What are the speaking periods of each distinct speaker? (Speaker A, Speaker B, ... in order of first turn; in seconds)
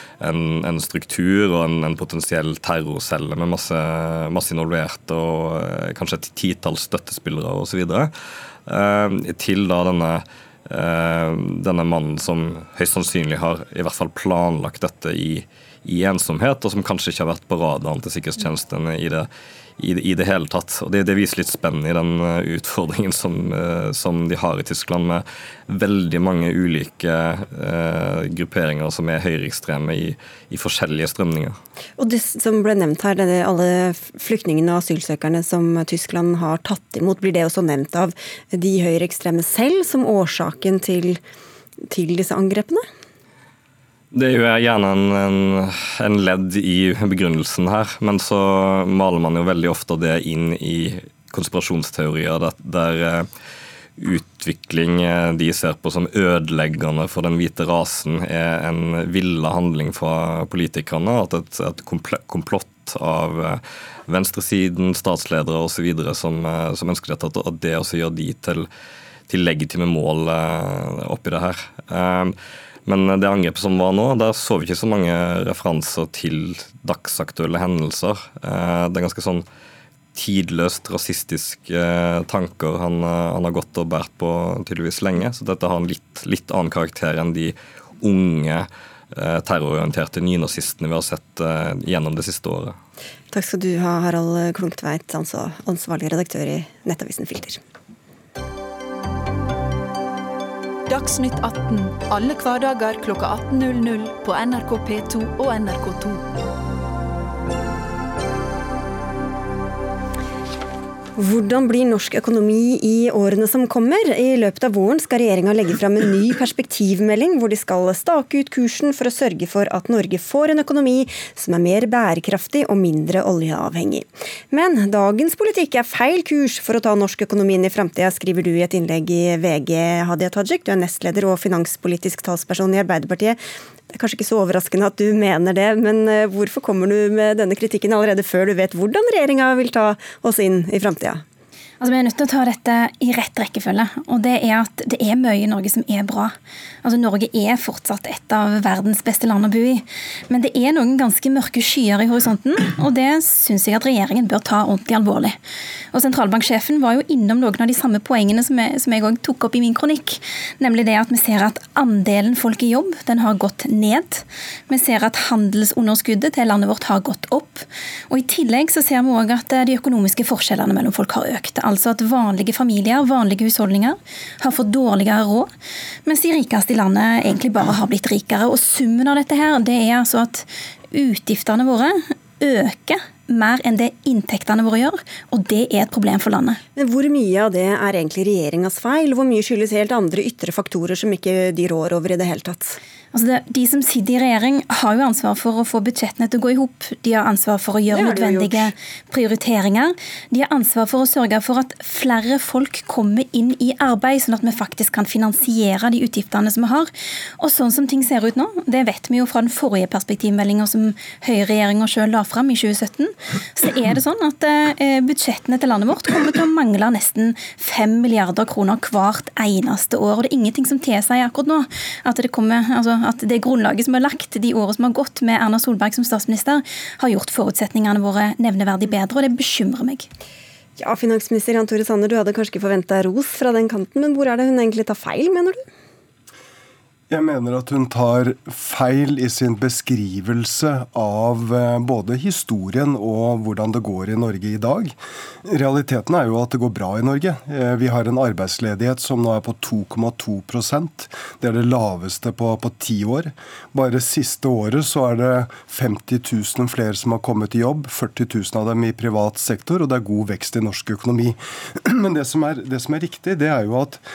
Speaker A: 0.2-8.1, 8.7-19.3, 19.8-31.6, 44.1-53.3, 54.0-68.7, 69.3-72.3, 72.9-79.5, 80.2-92.8
Speaker B: 32.0-41.2, 41.9-42.9, 93.3-97.6, 111.2-141.2, 186.8-192.8, 197.9-198.7, 230.8-235.6
Speaker C: 100.9-106.3
Speaker D: 141.8-155.4, 155.9-175.5, 176.1-186.6, 193.1-230.1
Speaker E: 237.1-264.0